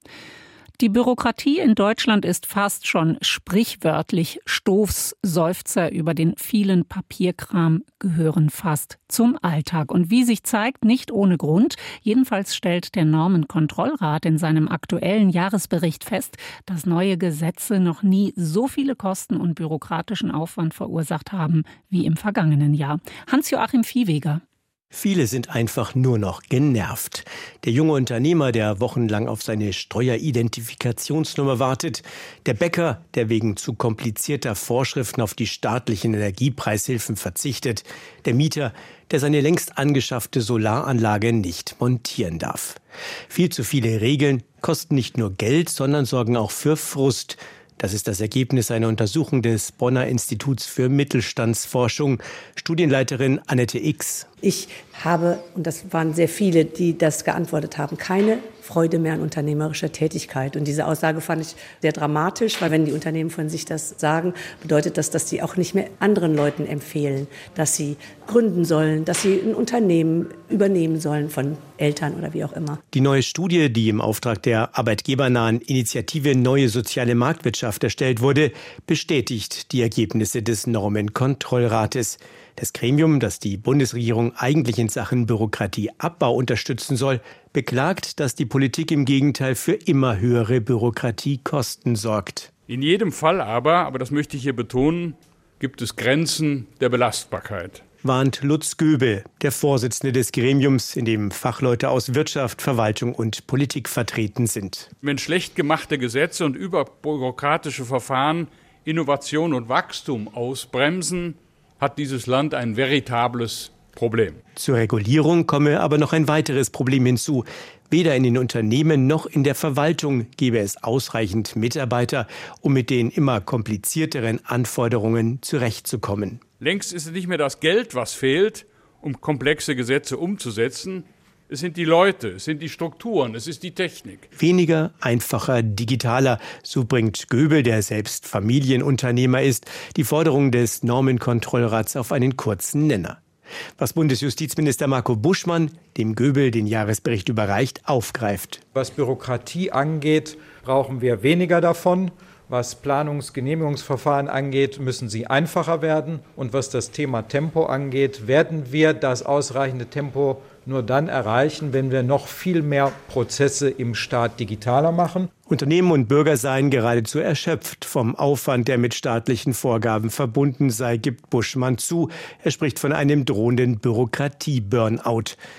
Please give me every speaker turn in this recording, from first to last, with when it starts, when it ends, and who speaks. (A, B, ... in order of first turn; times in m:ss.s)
0:00.8-0:24.4 A
0:24.9-0:54.3 B
0:54.3-1:12.8 C
1:12.9-1:32.5 B
1:32.7-1:37.8 D
1:38.0-1:44.9 B
1:45.0-1:54.4 D
1:54.5-2:06.4 B
2:06.6-2:14.3 D
2:14.4-2:23.2 B
2:23.8-2:28.6 B
2:28.7-2:45.3 E
2:45.5-2:55.4 B